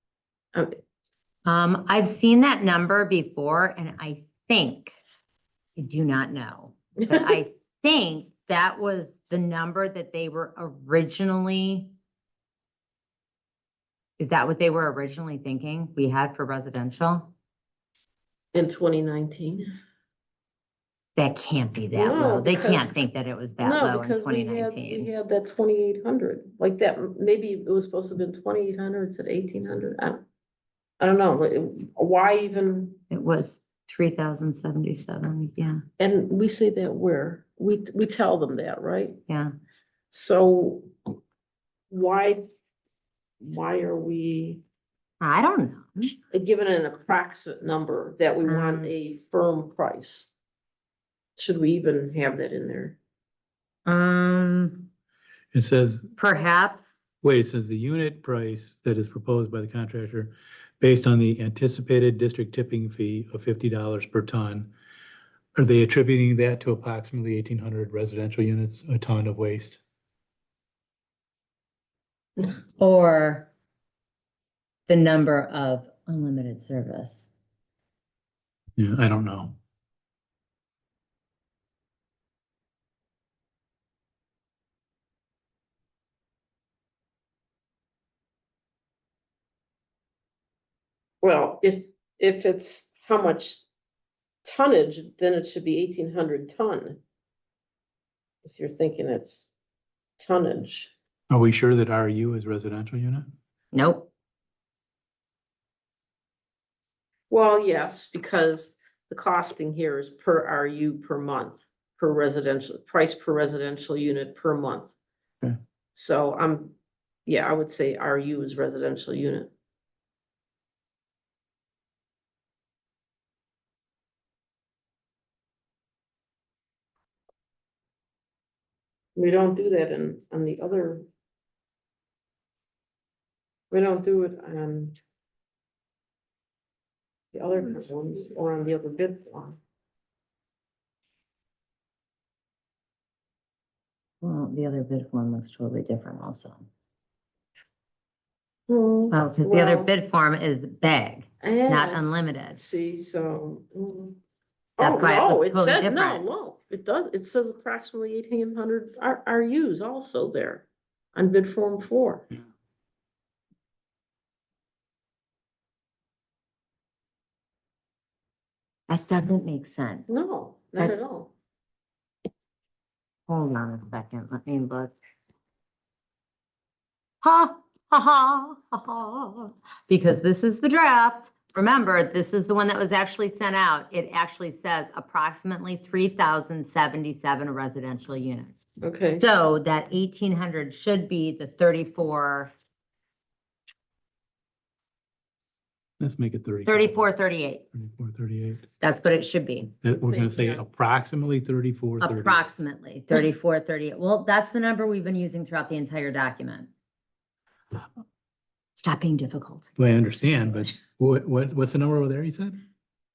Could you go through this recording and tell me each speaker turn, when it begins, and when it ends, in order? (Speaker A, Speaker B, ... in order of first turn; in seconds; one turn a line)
Speaker A: 1.5-5.0
Speaker A: 5.8-11.9
Speaker A: 14.2-17.3
Speaker B: 18.5-19.7
Speaker A: 21.2-25.1
Speaker B: 21.9-23.0
Speaker B: 23.6-30.2
Speaker B: 31.0-33.0
Speaker A: 33.1-35.8
Speaker B: 36.0-39.2
Speaker A: 39.3-39.5
Speaker B: 40.1-40.9
Speaker B: 41.9-42.5
Speaker B: 43.4-44.6
Speaker A: 45.2-46.1
Speaker B: 46.3-50.3
Speaker A: 48.5-48.9
Speaker B: 51.4-53.0
Speaker A: 53.9-54.9
Speaker C: 55.5-56.1
Speaker A: 56.2-56.9
Speaker C: 57.2-64.7
Speaker C: 65.6-69.8
Speaker A: 72.8-73.5
Speaker A: 74.9-77.3
Speaker C: 78.8-79.6
Speaker B: 91.2-93.7
Speaker B: 94.4-97.0
Speaker B: 98.5-99.5
Speaker B: 100.2-100.9
Speaker C: 101.3-103.3
Speaker A: 103.7-104.1
Speaker B: 107.3-114.9
Speaker B: 115.9-116.7
Speaker B: 117.3-119.5
Speaker B: 129.2-131.1
Speaker B: 133.7-135.0
Speaker B: 137.3-139.6
Speaker A: 144.2-146.7
Speaker B: 148.7-149.9
Speaker A: 149.1-152.6
Speaker B: 151.4-154.2
Speaker B: 154.8-162.3
Speaker A: 154.8-156.2
Speaker A: 168.9-170.1
Speaker B: 170.1-171.3
Speaker A: 173.3-174.9
Speaker A: 177.2-188.6
Speaker B: 188.8-189.2
Speaker A: 189.2-192.5
Speaker C: 196.0-197.0
Speaker A: 196.7-197.6
Speaker C: 197.7-198.7
Speaker A: 198.8-199.7
Speaker C: 199.8-202.4
Speaker B: 200.0-200.7
Speaker A: 202.0-206.7
Speaker A: 208.8-209.7
Speaker C: 209.8-212.6